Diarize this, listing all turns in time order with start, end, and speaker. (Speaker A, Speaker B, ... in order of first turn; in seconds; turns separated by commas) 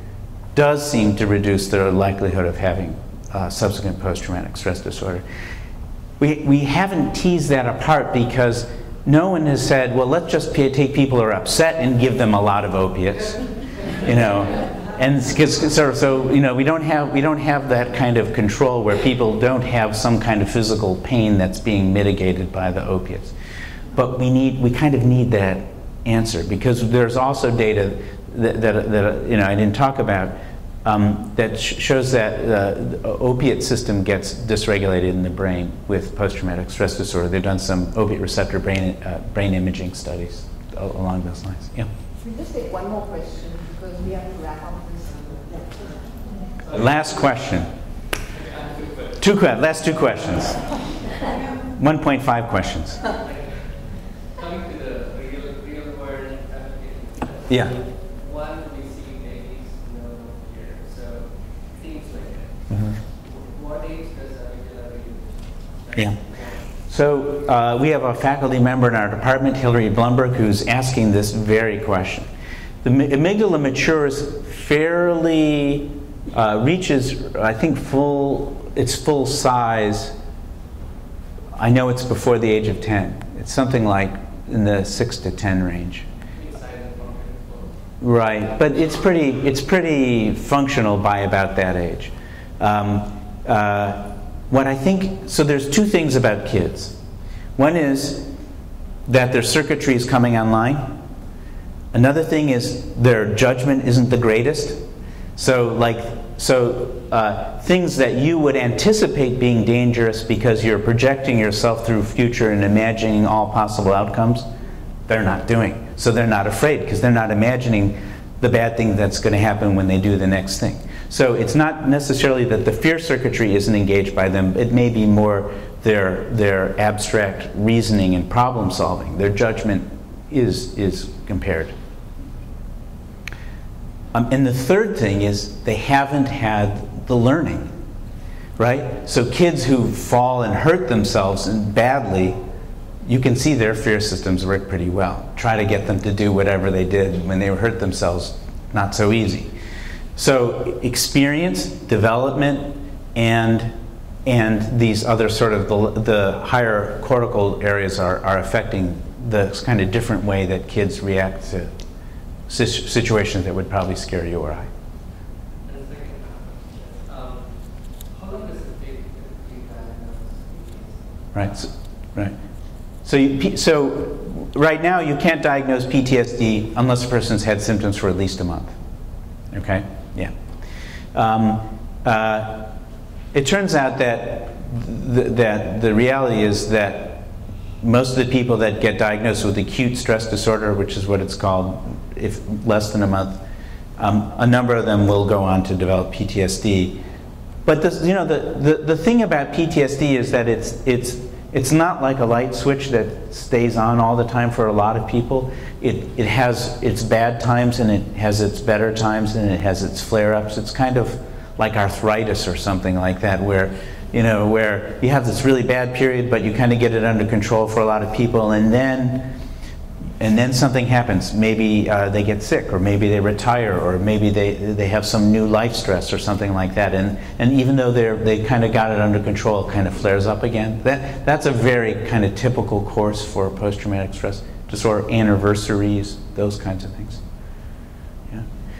Speaker A: 0.5-5.2, Speaker A: 6.2-23.3, Speaker A: 23.9-41.9, Speaker B: 42.2-45.9, Speaker C: 46.6-47.6, Speaker A: 46.7-47.7, Speaker C: 48.3-49.6, Speaker A: 49.2-50.7, Speaker A: 51.8-53.0, Speaker C: 53.0-66.8, Speaker A: 57.5-57.7, Speaker A: 62.7-63.0, Speaker A: 65.9-72.3, Speaker A: 72.8-80.1, Speaker A: 81.6-86.0, Speaker C: 86.3-87.8, Speaker A: 88.0-97.0, Speaker A: 97.6-98.3, Speaker A: 99.0-101.0, Speaker A: 101.9-104.8, Speaker A: 105.4-114.5, Speaker A: 115.1-131.7, Speaker A: 134.1-137.7, Speaker A: 138.6-142.4, Speaker A: 143.0-149.5, Speaker A: 150.2-153.7, Speaker A: 154.2-161.7, Speaker A: 162.5-164.7, Speaker C: 165.6-171.7, Speaker A: 171.3-172.3, Speaker A: 173.0-178.8, Speaker A: 179.5-180.3, Speaker A: 181.1-182.7, Speaker A: 183.3-187.3, Speaker A: 187.8-193.4, Speaker A: 194.0-197.0, Speaker A: 197.6-219.3, Speaker A: 220.2-237.2